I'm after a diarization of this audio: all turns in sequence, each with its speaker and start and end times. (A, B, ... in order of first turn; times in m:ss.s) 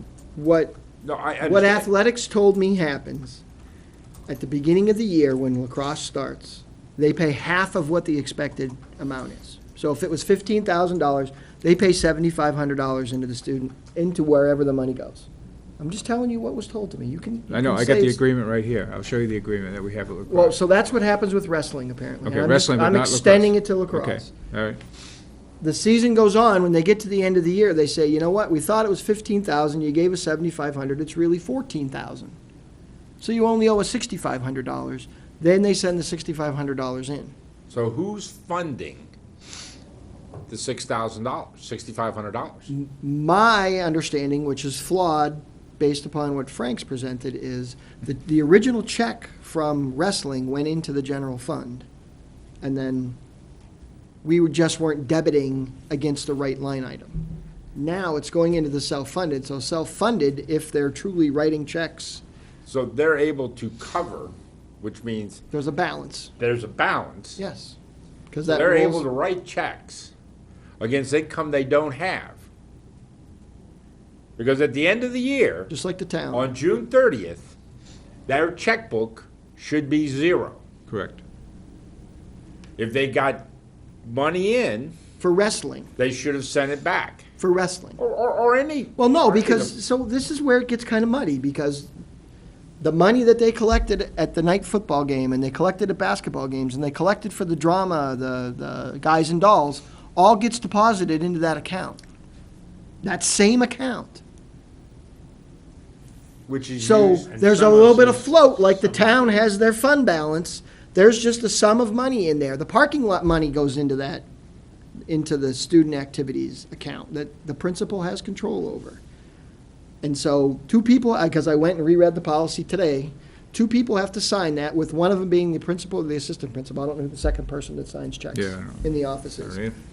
0:00.3-0:00.8 A
0:01.0-0:01.9 B
0:01.4-0:03.4 A
0:04.3-0:15.3 A
0:15.8-0:18.2 A
0:17.5-0:20.6 C
0:20.3-0:24.3 A
0:22.2-0:24.8 C
0:25.6-0:32.4 A
0:33.2-0:37.3 A
0:37.7-0:39.1 B
0:40.5-0:42.7 B
0:42.7-0:51.8 A
0:52.6-0:53.2 A
0:54.2-0:57.2 A
0:57.8-1:02.2 A
1:02.7-1:05.4 B
1:05.5-1:06.3 A
1:06.4-1:07.4 B
1:07.4-1:07.8 A
1:08.3-1:09.0 A
1:08.4-1:10.1 B
1:10.8-1:12.4 B
1:14.4-1:15.7 B
1:15.7-1:16.5 A
1:16.3-1:17.5 B
1:18.3-1:20.6 B
1:20.9-1:21.2 C
1:22.8-1:23.4 B
1:24.0-1:24.9 B
1:25.2-1:25.9 A
1:26.0-1:27.3 B
1:27.4-1:28.0 A
1:28.0-1:29.7 B
1:29.0-1:31.9 A
1:32.8-1:42.0 A
1:43.0-1:44.2 A
1:46.5-1:49.1 B
1:46.8-1:54.2 A
1:55.1-1:59.0 A
2:00.0-2:09.6 A
2:08.3-2:09.8 C